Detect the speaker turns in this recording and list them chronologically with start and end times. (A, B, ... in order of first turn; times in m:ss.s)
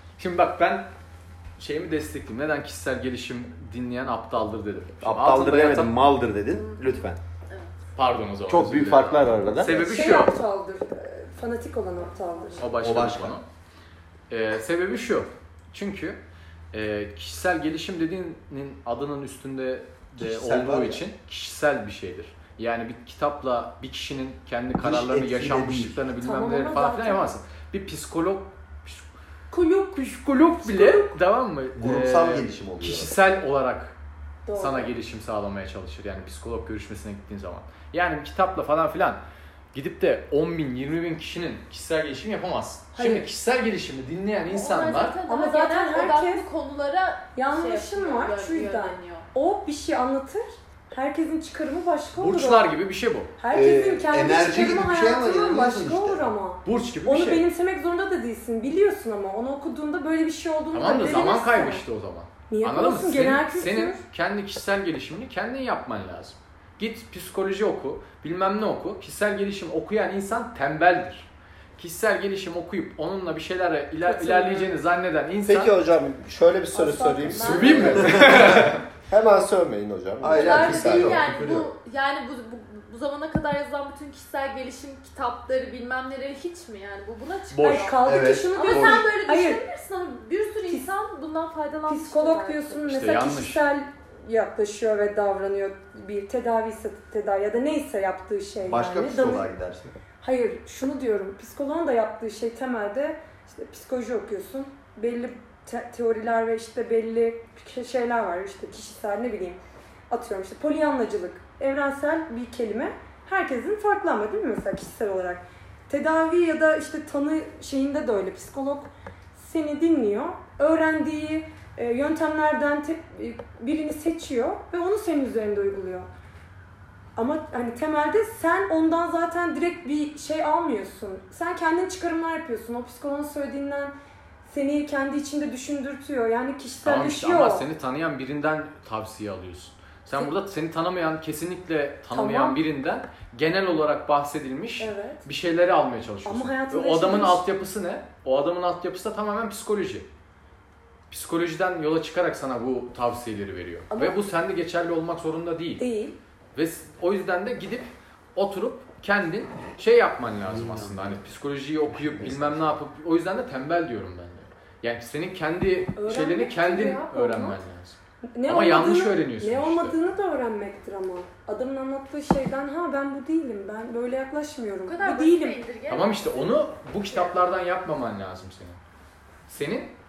0:00.2-0:00.9 A
0:01.6-0:05.9 A
0:05.0-0:07.2 B
0:08.0-0:10.4 A
0:08.5-0:10.2 B
0:09.8-0:12.7 C
0:12.6-0:13.5 A
0:12.8-0:13.4 B
0:14.3-0:16.2 A
0:16.7-0:29.1 A
0:20.2-0:21.0 B
0:24.8-0:26.0 B
0:26.2-0:27.3 C
0:29.5-0:31.2 C
0:30.0-0:34.0 A
0:31.8-0:33.1 B
0:34.5-0:34.9 C
0:34.6-0:39.2 A
0:39.7-0:45.2 A
0:43.0-0:43.3 C
0:44.5-0:49.3 D
0:45.3-0:46.4 C
0:47.4-0:52.7 C
0:52.2-0:53.3 A
0:53.4-1:01.8 C
0:53.5-0:56.3 B
0:56.6-0:57.5 A
1:00.7-1:15.8 A
1:02.5-1:04.0 C
1:14.0-1:14.8 C
1:15.4-1:21.2 E
1:16.7-1:18.3 C
1:17.4-1:18.8 A
1:17.9-1:18.4 B
1:20.2-1:21.7 B
1:20.3-1:32.8 D
1:27.5-1:28.0 A
1:27.6-1:29.6 C
1:28.0-1:28.8 B
1:28.7-1:29.0 A
1:31.9-1:39.5 C
1:32.9-1:33.6 A
1:38.6-1:39.9 B
1:40.2-2:06.1 C
2:07.2-2:17.7 C
2:16.8-2:30.1 A
2:22.1-2:22.6 C
2:24.8-2:25.3 C
2:26.2-2:27.4 C
2:31.1-2:35.8 A
2:33.9-2:34.2 C
2:35.8-2:36.2 C
2:36.6-2:50.0 A
2:40.5-2:41.2 B
2:42.1-2:42.5 B
2:46.0-2:47.6 C
2:48.4-2:55.6 C
2:54.9-2:56.6 D
2:55.9-2:58.8 A
2:57.1-2:57.4 D
2:59.5-2:59.9 A